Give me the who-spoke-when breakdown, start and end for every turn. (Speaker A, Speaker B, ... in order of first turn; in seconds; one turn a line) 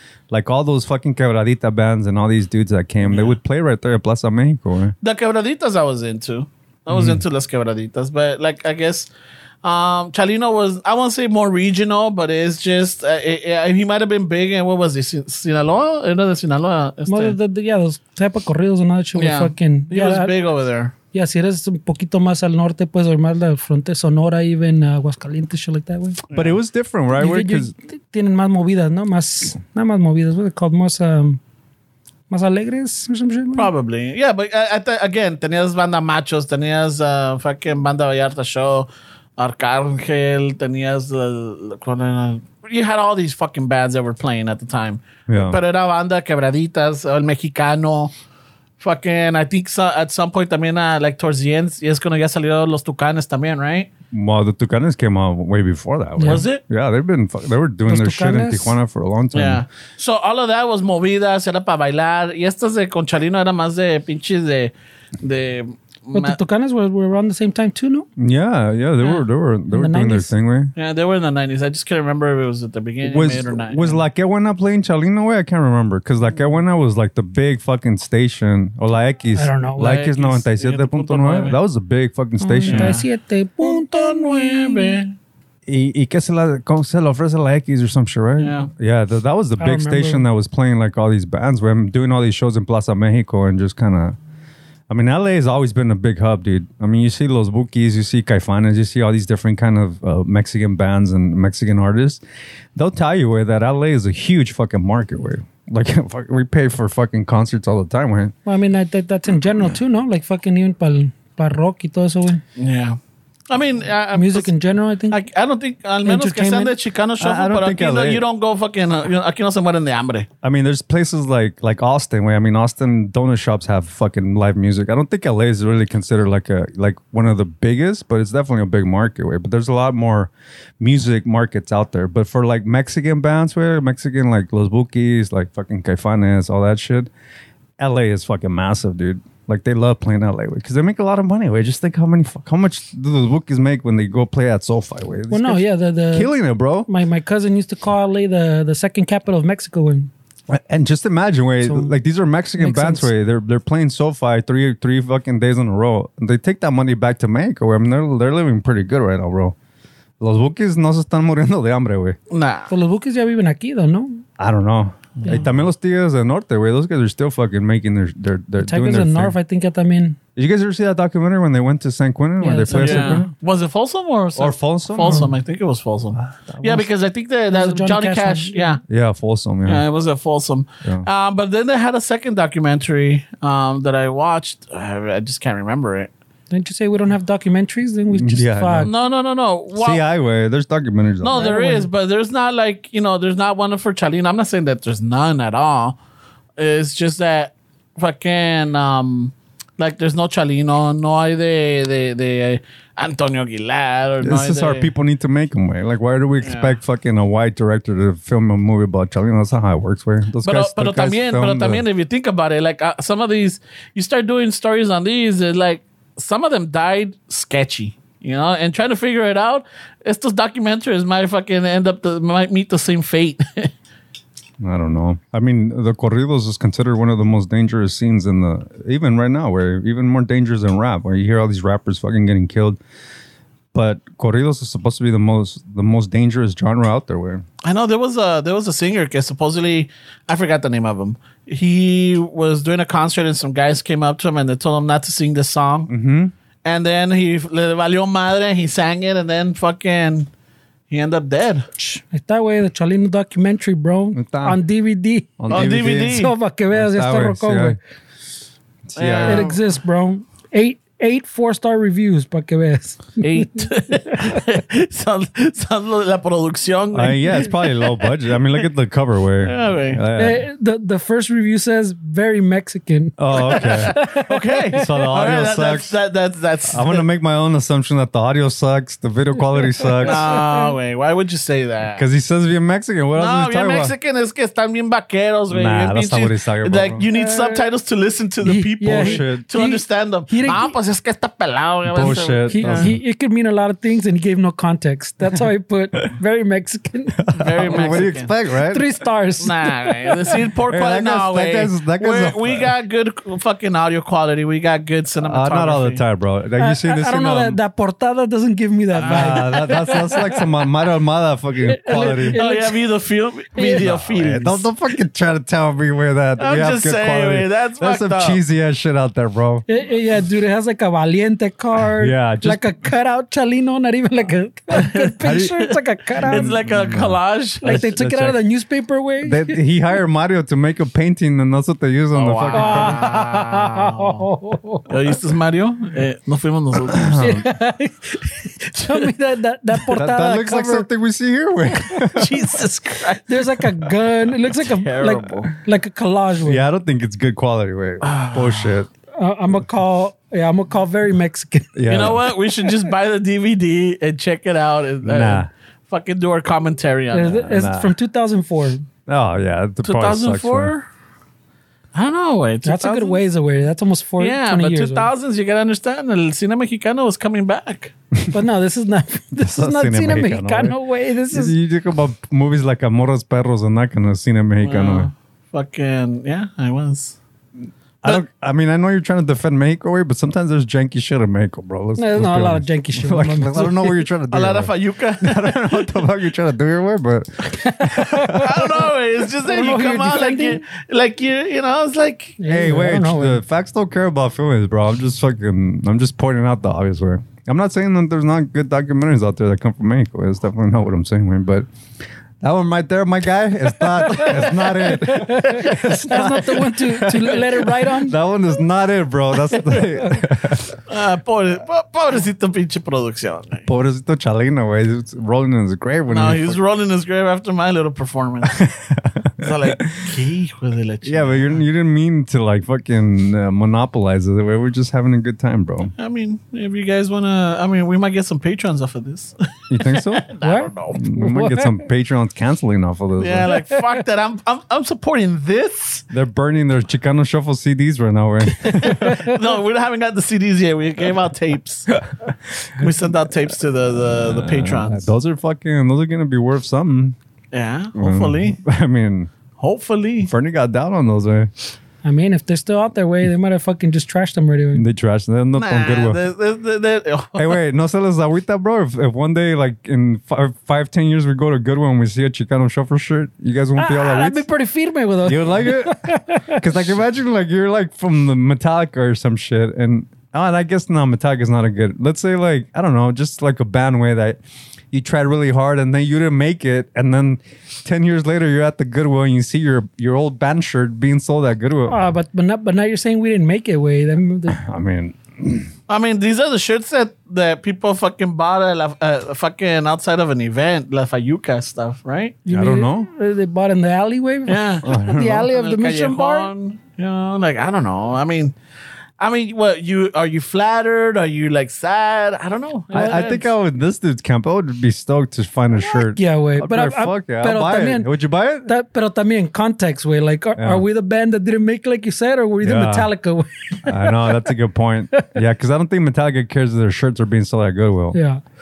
Speaker A: 0.3-4.9
Speaker B: 3.0-3.4
Speaker B: 5.0-9.1
Speaker A: 6.9-7.2
Speaker B: 9.6-17.3
Speaker C: 17.1-20.3
Speaker B: 19.1-20.9
Speaker C: 21.1-26.2
Speaker A: 26.3-27.7
Speaker B: 26.3-26.6
Speaker C: 27.1-31.4
Speaker C: 32.3-33.7
Speaker B: 33.5-48.1
Speaker A: 45.3-45.6
Speaker B: 48.8-53.9
Speaker A: 54.1-59.6
Speaker C: 56.2-56.4
Speaker B: 56.2-56.6
Speaker C: 57.9-58.8
Speaker B: 59.3-66.4
Speaker C: 66.1-68.1
Speaker A: 68.2-70.7
Speaker C: 69.7-70.3
Speaker B: 70.8-74.0
Speaker A: 73.0-83.0
Speaker C: 79.3-80.0
Speaker B: 79.8-81.6
Speaker C: 82.4-85.0
Speaker B: 82.7-83.0
Speaker B: 83.6-85.1
Speaker A: 85.7-94.2
Speaker B: 88.4-88.7
Speaker C: 89.6-90.2
Speaker A: 94.9-102.2
Speaker A: 102.8-108.3
Speaker C: 108.5-112.4
Speaker B: 112.6-113.0
Speaker B: 113.5-114.5
Speaker C: 114.1-115.2
Speaker B: 115.1-120.3
Speaker C: 116.0-116.7
Speaker A: 117.2-118.2
Speaker A: 120.4-137.1
Speaker A: 137.8-146.9
Speaker C: 145.3-146.3
Speaker C: 146.8-150.1
Speaker A: 150.5-159.5
Speaker C: 151.6-151.9
Speaker C: 152.6-153.1
Speaker A: 160.2-162.2
Speaker B: 162.3-162.7
Speaker C: 162.7-164.2
Speaker A: 164.4-169.3
Speaker C: 168.6-170.2
Speaker A: 170.3-173.3
Speaker C: 172.4-173.2
Speaker B: 172.7-178.8
Speaker A: 174.4-175.3
Speaker A: 176.2-176.9
Speaker C: 177.5-178.8
Speaker A: 178.9-179.8
Speaker B: 179.7-186.1
Speaker C: 186.5-188.9
Speaker A: 188.1-188.9
Speaker B: 188.8-190.0
Speaker A: 189.8-191.5
Speaker B: 191.2-196.0
Speaker C: 191.3-191.9
Speaker B: 196.6-204.9
Speaker A: 204.2-211.8
Speaker B: 206.4-206.7
Speaker B: 210.4-223.7
Speaker A: 224.6-232.8
Speaker A: 233.7-237.4
Speaker B: 237.6-245.9
Speaker A: 245.9-246.3
Speaker B: 246.6-250.3
Speaker B: 250.9-251.7
Speaker C: 251.8-257.8
Speaker A: 254.1-254.6
Speaker A: 255.4-257.8
Speaker B: 255.5-256.3
Speaker A: 258.9-259.5
Speaker B: 258.9-259.6
Speaker C: 259.2-264.4
Speaker B: 263.2-268.1
Speaker A: 266.9-270.4
Speaker B: 269.4-270.0
Speaker C: 270.1-274.8
Speaker A: 273.2-273.9
Speaker B: 273.3-277.1
Speaker A: 274.7-275.9
Speaker A: 276.7-280.4
Speaker B: 280.0-282.1
Speaker C: 280.1-280.7
Speaker A: 281.9-283.9
Speaker B: 283.1-292.9
Speaker A: 285.5-287.0
Speaker C: 287.1-287.6
Speaker C: 288.4-290.7
Speaker A: 288.9-289.4
Speaker A: 291.9-292.9
Speaker C: 292.5-297.2
Speaker A: 297.2-298.9
Speaker B: 297.4-298.3
Speaker C: 298.7-300.1
Speaker B: 299.4-306.0
Speaker A: 300.7-302.7
Speaker A: 305.2-307.6
Speaker C: 306.6-310.4
Speaker B: 308.9-309.9
Speaker A: 309.0-312.4
Speaker C: 311.6-312.8
Speaker B: 311.9-314.7
Speaker C: 313.6-313.8
Speaker A: 313.8-319.6
Speaker B: 316.4-318.4
Speaker C: 319.7-326.6
Speaker A: 322.0-322.7
Speaker B: 324.7-327.8
Speaker A: 325.2-325.6
Speaker A: 326.2-328.4
Speaker C: 327.6-329.6
Speaker A: 329.2-333.0
Speaker B: 332.1-334.2
Speaker C: 332.5-334.9
Speaker B: 334.9-337.3
Speaker A: 336.9-337.4
Speaker C: 337.2-340.9
Speaker B: 338.8-339.1
Speaker A: 339.9-342.6
Speaker B: 342.1-343.3
Speaker C: 343.2-346.6
Speaker B: 344.4-345.5
Speaker A: 346.4-348.9
Speaker B: 348.0-348.8
Speaker C: 349.2-352.0
Speaker A: 351.7-352.2
Speaker B: 351.9-357.4
Speaker A: 355.0-355.5
Speaker C: 357.1-358.9
Speaker A: 357.4-357.9
Speaker A: 359.1-360.7
Speaker B: 359.8-360.9
Speaker B: 361.9-363.2
Speaker C: 362.6-365.1
Speaker B: 364.2-367.9
Speaker C: 368.3-371.6
Speaker A: 369.4-370.8
Speaker A: 371.3-375.1
Speaker B: 374.6-377.2
Speaker A: 378.0-388.7
Speaker C: 382.0-384.0
Speaker B: 384.3-386.0
Speaker C: 387.5-388.7
Speaker B: 388.3-392.4
Speaker C: 389.4-390.6
Speaker C: 392.4-393.4
Speaker A: 392.5-401.7
Speaker A: 402.4-410.8
Speaker C: 404.1-408.2
Speaker B: 405.6-405.9
Speaker B: 410.9-413.7
Speaker A: 413.6-416.6
Speaker B: 416.1-418.6
Speaker A: 418.5-420.1
Speaker B: 419.4-421.6
Speaker A: 421.0-425.9
Speaker B: 426.0-431.0
Speaker A: 429.7-430.3
Speaker C: 430.4-431.8
Speaker A: 430.9-433.5
Speaker B: 433.2-436.1
Speaker A: 436.1-439.2
Speaker B: 438.6-441.9
Speaker B: 442.8-445.1
Speaker A: 444.1-447.2
Speaker B: 447.5-448.6
Speaker A: 447.9-449.3
Speaker B: 449.6-450.3
Speaker A: 450.2-451.5
Speaker C: 452.0-454.8
Speaker A: 454.7-456.2
Speaker B: 455.6-457.6
Speaker A: 457.3-464.4
Speaker C: 463.8-466.6
Speaker A: 465.2-474.4
Speaker A: 474.9-482.0
Speaker C: 481.9-484.6
Speaker A: 484.5-485.7
Speaker B: 485.9-492.4
Speaker C: 492.4-496.5
Speaker A: 492.5-493.1
Speaker B: 494.5-498.5
Speaker A: 494.8-495.5
Speaker B: 499.2-503.5
Speaker A: 502.9-508.7
Speaker C: 502.9-503.2
Speaker C: 505.8-508.1
Speaker C: 508.6-514.4
Speaker A: 510.6-510.8
Speaker A: 512.6-513.1
Speaker A: 513.9-518.2
Speaker C: 518.1-518.4